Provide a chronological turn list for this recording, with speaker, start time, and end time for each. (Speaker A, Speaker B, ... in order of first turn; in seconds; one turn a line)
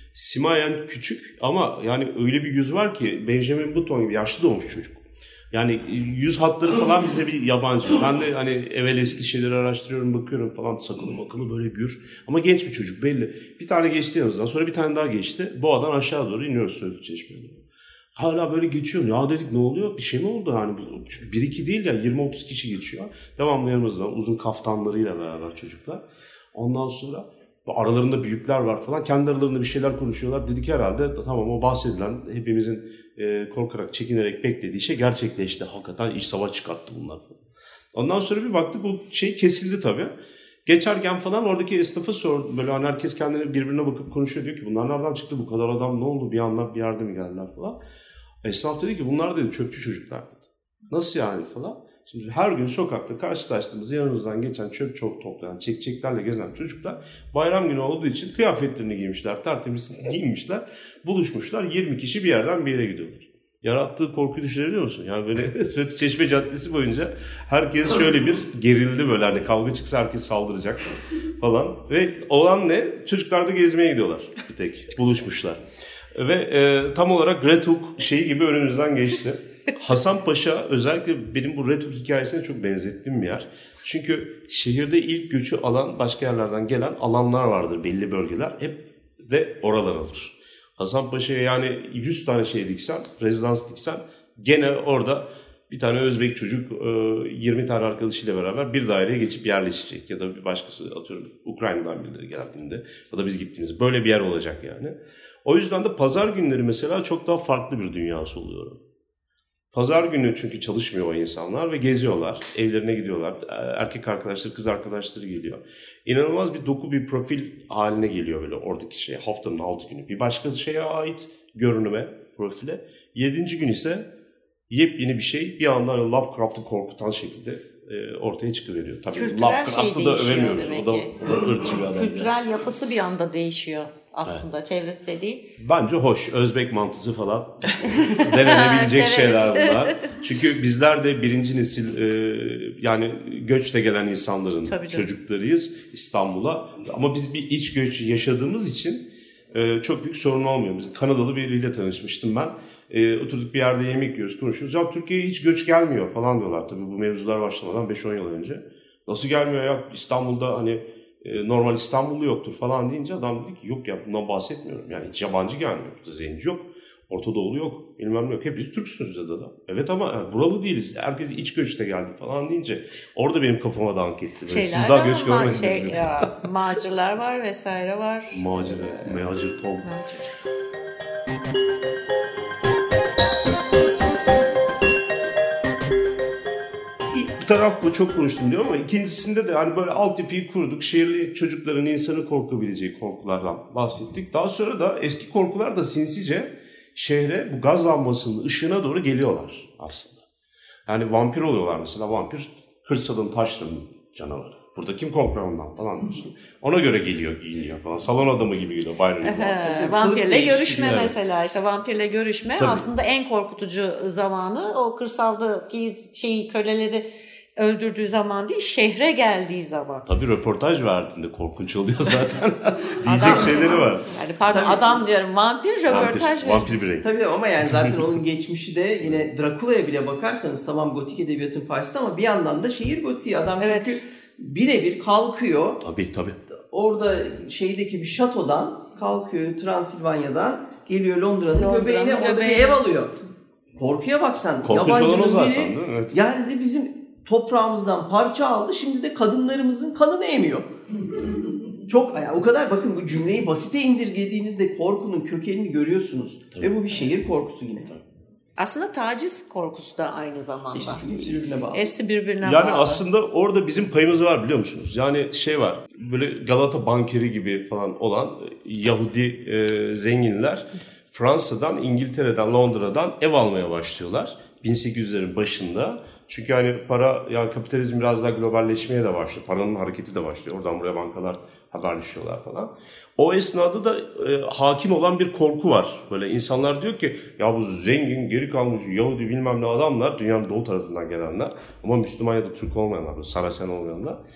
Speaker A: 0.1-17.6
Speaker A: 18.1-37.4
Speaker A: 37.9-40.1
Speaker A: 40.6-47.8
Speaker A: 48.4-75.6
Speaker A: 76.1-108.8
Speaker A: 109.7-124.1
Speaker A: 124.7-132.3
Speaker B: 129.1-135.4
Speaker A: 135.6-176.3
Speaker B: 137.8-140.1
Speaker B: 144.7-145.1
Speaker B: 174.5-179.2
Speaker A: 178.3-179.9
Speaker B: 179.8-180.3
Speaker A: 187.1-200.2
Speaker A: 200.9-209.6
Speaker B: 209.2-217.1
Speaker C: 209.6-211.1
Speaker A: 210.7-211.1
Speaker A: 212.6-212.8
Speaker B: 217.6-220.1
Speaker A: 220.1-224.1
Speaker B: 223.0-226.7
Speaker C: 224.5-224.9
Speaker A: 225.9-227.1
Speaker C: 227.0-235.8
Speaker B: 233.6-234.0
Speaker A: 235.8-236.4
Speaker C: 236.7-243.2
Speaker B: 241.5-242.8
Speaker C: 243.8-250.7
Speaker A: 244.6-246.2
Speaker C: 251.9-258.0
Speaker B: 258.6-261.0
Speaker C: 260.7-261.9
Speaker B: 261.7-263.0
Speaker A: 262.4-294.2